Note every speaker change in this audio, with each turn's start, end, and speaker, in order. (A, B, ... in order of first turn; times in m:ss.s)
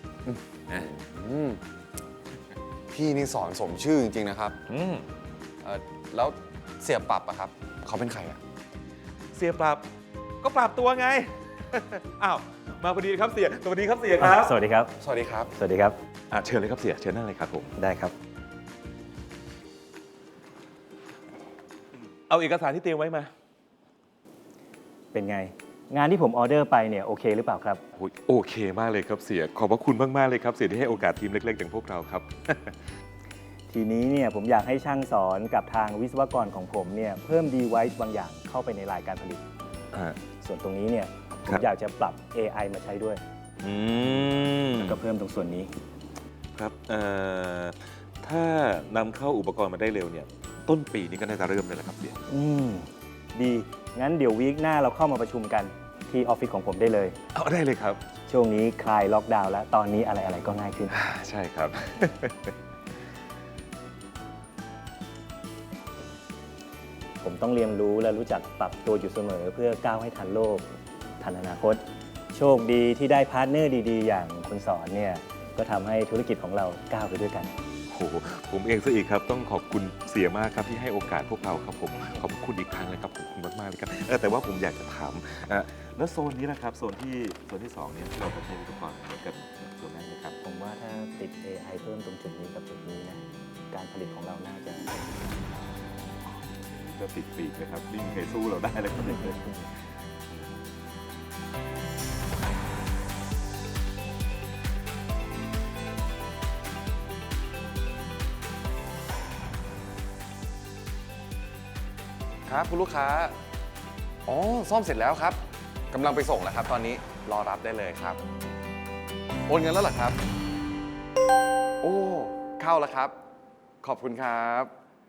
0:00.2-0:01.6 A
0:02.9-0:04.6 A
0:04.7-0:05.1 B
0:05.6-0:08.4 A
0:09.3-0:09.9 B
0:10.4-0:14.5 B
0:14.2-0:14.9 C
0:15.0-0:15.5 A
0:15.6-0:16.0 C
0:16.3-0:17.7 B
0:17.8-0:18.1 C
0:22.3-0:23.3 B
0:25.1-0:27.8 C
0:28.0-0:32.8 B
0:33.7-0:39.4 C
0:39.9-0:40.2 B
0:40.4-0:43.2 C
0:43.6-0:45.0 B
0:44.8-0:45.7 C
0:46.6-0:52.2 B
0:52.3-0:57.2 C
0:57.3-0:58.0 B
0:58.3-1:01.0 C
1:00.9-1:02.6 B
1:07.2-1:10.7 C
1:11.2-1:17.5 C
1:17.9-1:30.4 B
1:30.4-1:35.3 C
1:36.2-1:39.6 B
1:39.1-1:39.5 C
1:52.5-1:53.4 A
1:54.3-1:58.2 A
1:59.5-2:00.2 A
2:01.8-2:03.2 A
2:03.8-2:04.8 A